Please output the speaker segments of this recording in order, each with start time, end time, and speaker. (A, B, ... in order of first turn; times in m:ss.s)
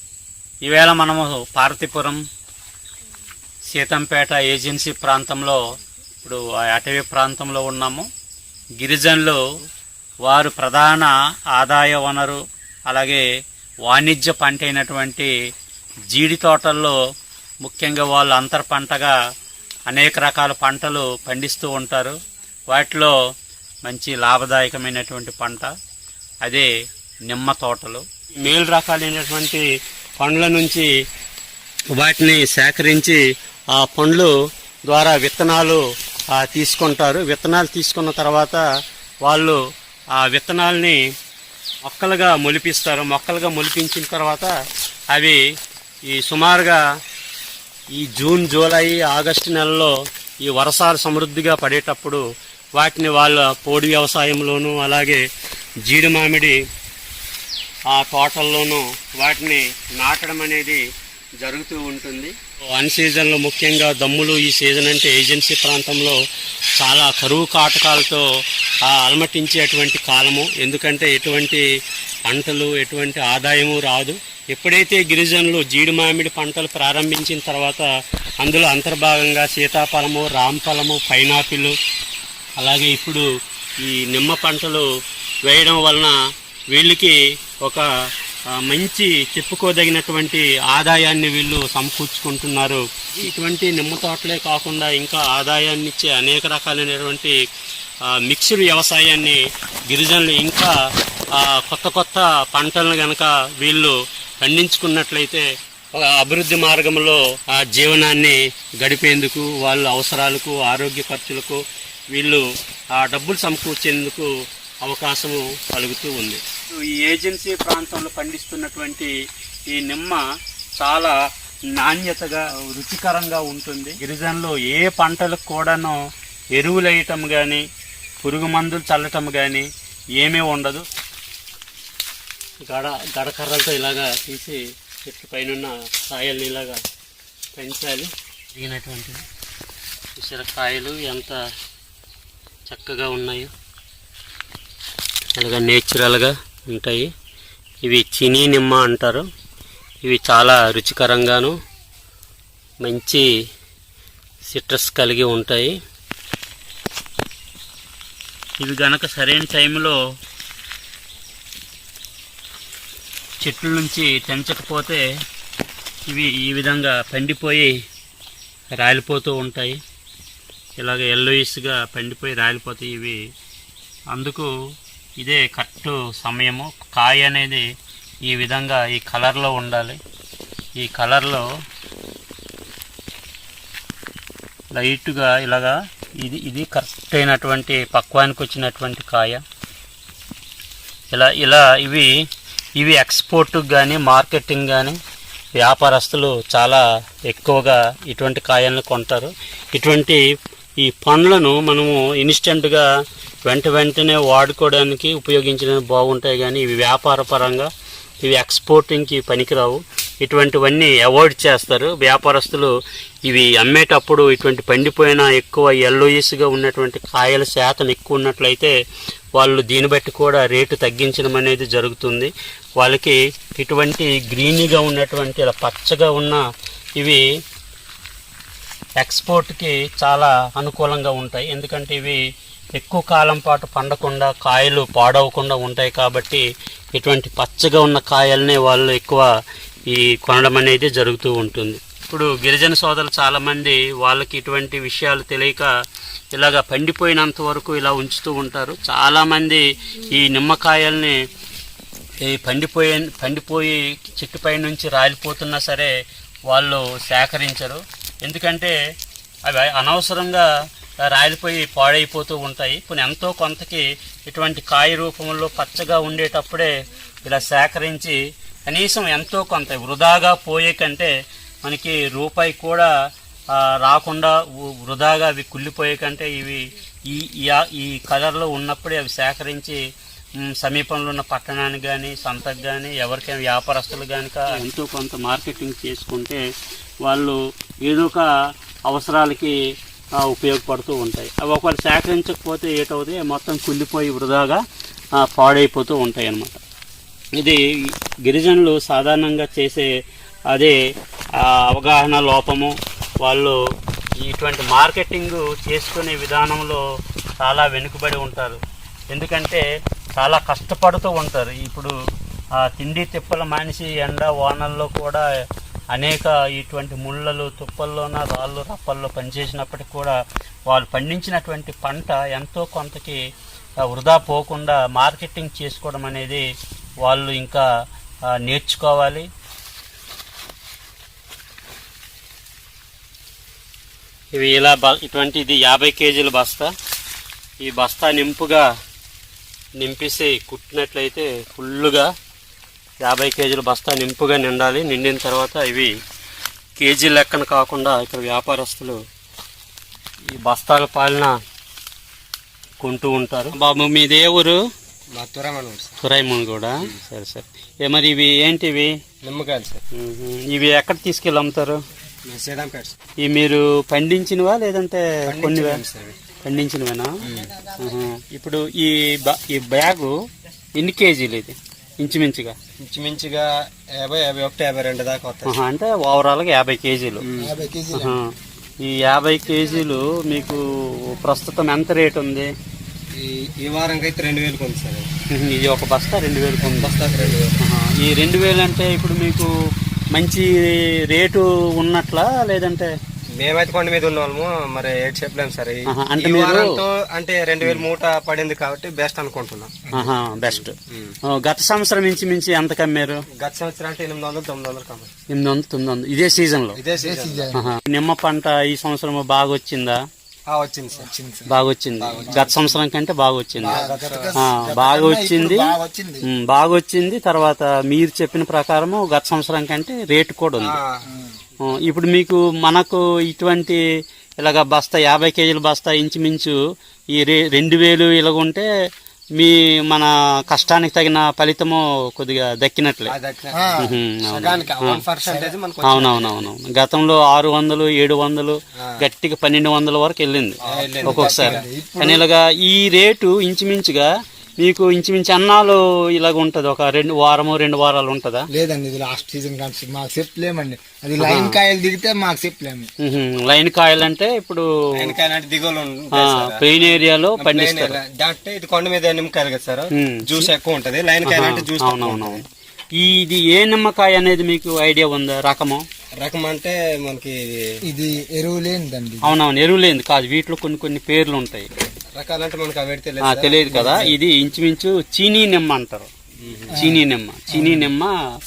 0:00.6-0:02.2 A
0:03.7-0:05.6 A
0:06.2-0:08.0 A
0:08.8-0:09.4 A
0:10.2-0:13.2 A
0:13.8-0:15.3 A
0:16.1-0:17.0 A
0:17.6-0:19.1 A
0:19.9-0:22.1 A
0:22.7-0:23.1 A
0:23.8-0:25.7 A
0:26.4-0:26.7 A
0:27.3-0:29.6 A
0:30.2-0:30.9 A
0:31.9-0:33.2 A
0:33.7-0:34.3 A
0:34.9-0:38.6 A
0:39.2-0:39.6 A
0:40.1-0:41.0 A
0:41.8-0:44.5 A
0:45.1-0:45.4 A
0:46.1-0:46.8 A
0:47.9-0:52.2 A
0:52.8-0:55.2 A
0:55.8-0:56.6 A
0:57.9-1:00.8 A
1:01.4-1:06.2 A
1:06.8-1:08.2 A
1:08.8-1:11.6 A
1:12.3-1:17.8 A
1:18.4-1:21.8 A
1:22.6-1:23.2 A
1:23.8-1:24.9 A
1:25.4-1:26.2 A
1:26.7-1:27.8 A
1:28.5-1:37.4 A
1:38.0-1:40.7 A
1:41.3-1:52.4 A
1:52.9-1:54.3 A
1:54.8-1:59.1 A
1:59.7-2:00.2 A
2:00.8-2:01.1 A
2:01.7-2:06.0 A
2:06.5-2:07.6 A
2:08.2-2:10.8 A
2:12.7-2:16.8 A
2:17.5-2:19.2 A
2:20.2-2:21.4 A
2:22.7-2:23.5 A
2:25.4-2:27.1 A
2:27.8-2:29.2 A
2:30.0-2:31.5 A
2:32.8-2:33.2 A
2:34.5-2:35.7 A
2:38.6-2:40.0 A
2:43.4-2:45.0 A
2:46.1-2:47.7 A
2:48.8-2:49.8 A
2:50.8-2:53.2 A
2:54.1-2:54.5 A
2:55.2-2:57.6 A
2:58.2-3:00.0 A
3:00.8-3:01.4 A
3:04.7-3:09.4 A
3:11.1-3:12.1 A
3:12.8-3:15.0 A
3:15.6-3:20.2 A
3:20.8-3:22.8 A
3:23.5-3:27.7 A
3:28.2-3:32.7 A
3:33.3-3:38.7 A
3:39.4-3:46.4 A
3:49.0-3:52.2 A
3:52.7-3:56.4 A
3:56.9-3:59.3 A
3:59.9-4:05.7 A
4:06.3-4:11.1 A
4:12.2-4:15.9 A
4:16.5-4:18.7 A
4:19.4-4:20.5 A
4:21.1-4:26.7 A
4:27.2-4:31.1 A
4:31.6-4:32.9 A
4:33.5-4:39.8 A
4:40.4-4:46.4 A
4:47.0-4:48.2 A
4:48.9-4:49.5 A
4:50.2-4:54.6 A
4:55.2-4:56.6 A
4:57.4-4:59.9 A
5:01.4-5:03.6 A
5:04.2-5:06.8 A
5:07.4-5:09.6 A
5:10.2-5:11.9 A
5:12.6-5:15.2 A
5:15.9-5:20.1 A
5:20.7-5:23.2 A
5:23.8-5:26.4 A
5:27.0-5:27.6 A
5:28.4-5:29.3 A
5:34.3-5:36.7 A
5:37.6-5:38.7 A
5:39.8-5:42.1 A
5:43.0-5:45.9 A
5:46.8-5:49.0 A
5:50.3-5:51.3 A
5:52.8-5:54.6 A
5:55.1-5:56.0 B
5:56.0-5:58.9 A
5:59.2-5:59.8 B
5:59.9-6:01.8 A
6:02.3-6:03.0 B
6:03.2-6:05.8 A
6:05.3-6:06.1 B
6:06.4-6:07.1 A
6:07.2-6:07.6 B
6:07.8-6:10.1 A
6:10.8-6:12.6 A
6:12.8-6:15.6 B
6:15.5-6:17.2 A
6:17.2-6:17.6 B
6:17.4-6:18.2 C
6:17.9-6:18.3 A
6:18.8-6:20.6 A
6:21.1-6:22.5 A
6:23.1-6:25.1 B
6:25.3-6:29.5 A
6:26.6-6:27.6 B
6:30.1-6:30.5 A
6:31.1-6:32.9 A
6:33.4-6:39.9 B
6:35.9-6:36.8 A
6:39.9-6:40.7 A
6:40.5-6:41.2 B
6:41.2-6:43.2 A
6:43.4-6:45.1 B
6:45.3-6:46.8 A
6:46.8-6:47.5 B
6:46.9-6:47.8 C
6:47.5-6:50.0 A
6:50.5-6:51.1 B
6:50.9-6:51.5 C
6:51.5-6:53.8 A
6:52.0-6:52.7 B
6:53.6-6:56.2 C
6:53.6-6:54.5 B
6:54.4-6:55.7 A
6:56.3-7:00.8 A
7:00.6-7:01.0 B
7:01.0-7:01.3 C
7:01.8-7:03.8 A
7:04.4-7:06.5 A
7:07.1-7:08.6 A
7:09.4-7:13.1 A
7:13.1-7:16.4 B
7:13.5-7:13.9 C
7:13.8-7:15.0 A
7:15.3-7:15.5 C
7:15.8-7:24.1 A
7:20.6-7:21.6 B
7:20.7-7:22.2 C
7:24.6-7:28.5 A
7:28.5-7:32.9 C
7:31.2-7:31.6 A
7:33.0-7:34.6 A
7:35.0-7:42.4 B
7:36.1-7:38.0 A
7:39.9-7:40.5 A
7:41.2-7:42.4 A
7:43.0-7:45.8 A
7:46.2-7:47.6 B
7:47.8-7:49.3 C
7:49.2-7:51.7 A
7:52.1-7:54.1 B
7:53.2-7:56.1 A
7:53.7-7:54.1 C
7:56.4-7:56.8 B
7:56.7-7:57.9 C
7:56.7-7:58.1 A